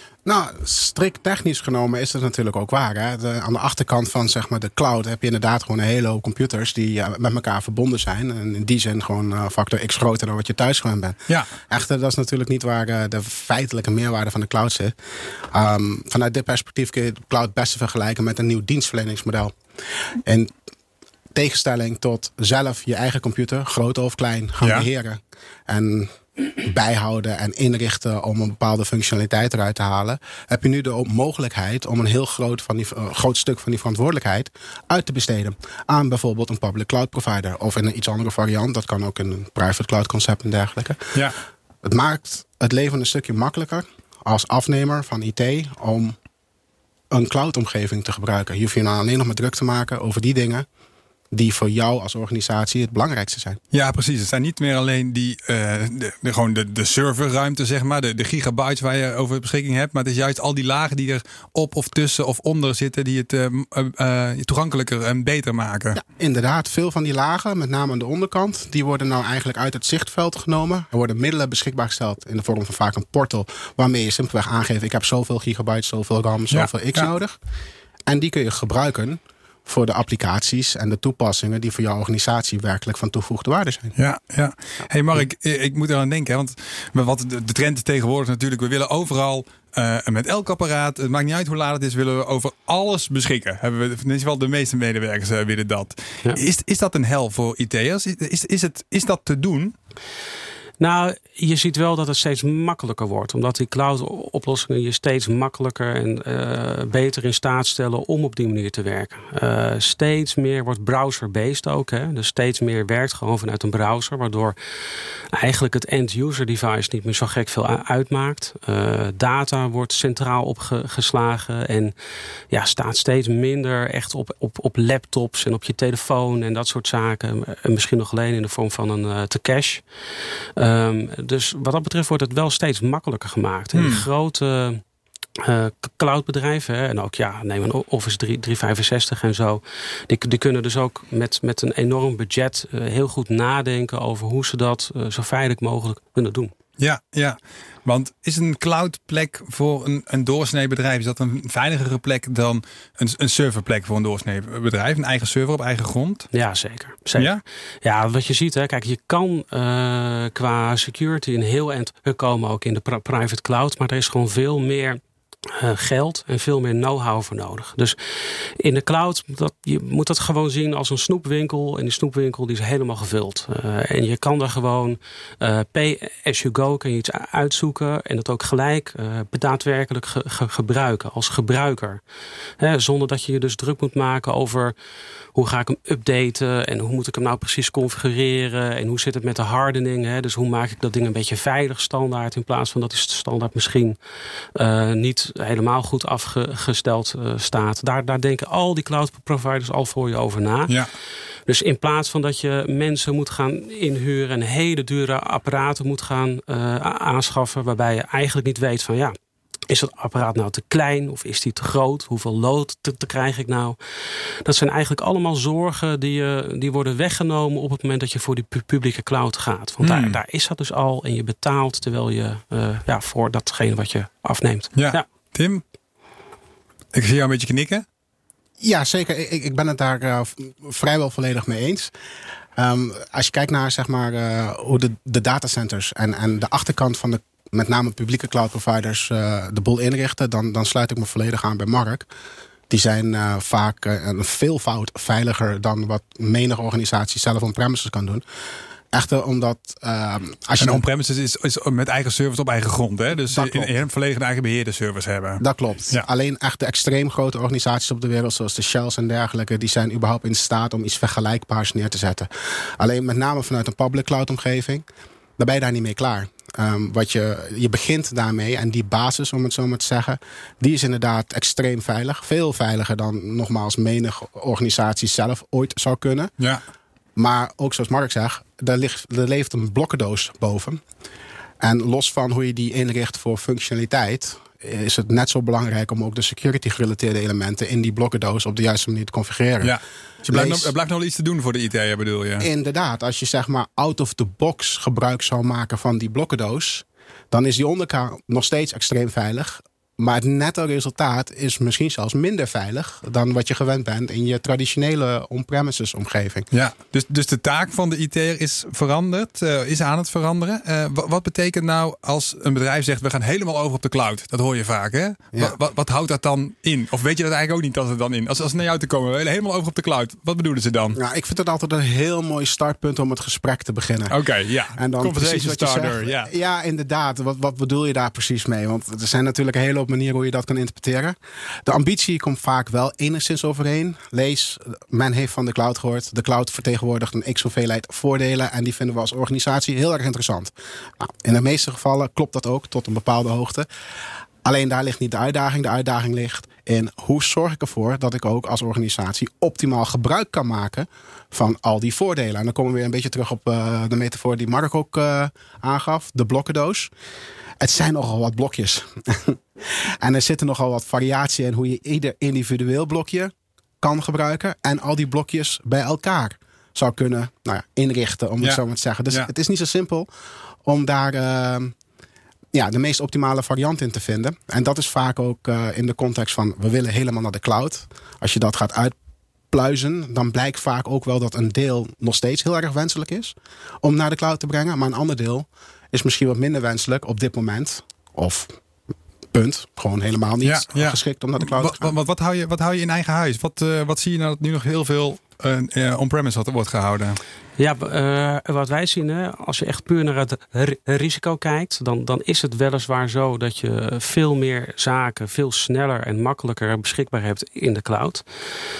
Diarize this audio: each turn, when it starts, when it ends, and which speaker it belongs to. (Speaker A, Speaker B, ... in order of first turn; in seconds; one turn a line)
Speaker A: 0.2-14.9
Speaker A: 15.5-19.6
Speaker A: 20.2-20.5
Speaker A: 21.3-41.2
Speaker B: 24.6-24.9
Speaker A: 41.8-46.2
Speaker A: 47.1-50.7
Speaker A: 51.3-53.6
Speaker B: 53.7-66.0
Speaker A: 65.9-77.3
Speaker B: 76.5-77.1
Speaker A: 78.1-83.9
Speaker B: 84.0-99.7
Speaker C: 100.8-114.5
Speaker C: 115.3-121.9
Speaker C: 122.5-129.8
Speaker C: 130.6-134.8
Speaker B: 133.7-134.1
Speaker C: 135.4-146.5
Speaker B: 146.8-156.3
Speaker C: 156.3-165.0
Speaker C: 165.5-182.0
Speaker C: 182.6-184.7
Speaker C: 185.3-194.0
Speaker C: 194.5-200.7
Speaker C: 201.4-209.2
Speaker C: 209.7-213.8
Speaker C: 214.4-225.0
Speaker B: 219.8-220.2
Speaker B: 224.8-225.6
Speaker B: 226.9-227.8
Speaker A: 228.6-231.9
Speaker A: 232.6-242.1
Speaker A: 242.7-248.2
Speaker A: 248.9-250.8
Speaker B: 250.6-256.0
Speaker A: 253.3-253.7
Speaker A: 255.4-264.9
Speaker A: 265.4-276.3
Speaker A: 277.1-280.8
Speaker A: 281.6-289.8
Speaker B: 289.6-292.5
Speaker A: 290.3-290.7
Speaker A: 292.4-306.5
Speaker B: 306.5-321.0
Speaker A: 320.9-324.2
Speaker B: 324.1-326.3
Speaker A: 324.8-343.7
Speaker A: 344.4-356.9
Speaker A: 357.6-370.1
Speaker A: 370.6-371.7
Speaker A: 372.5-378.9
Speaker A: 379.5-388.5
Speaker A: 389.3-391.9
Speaker B: 390.4-397.2
Speaker C: 397.6-408.2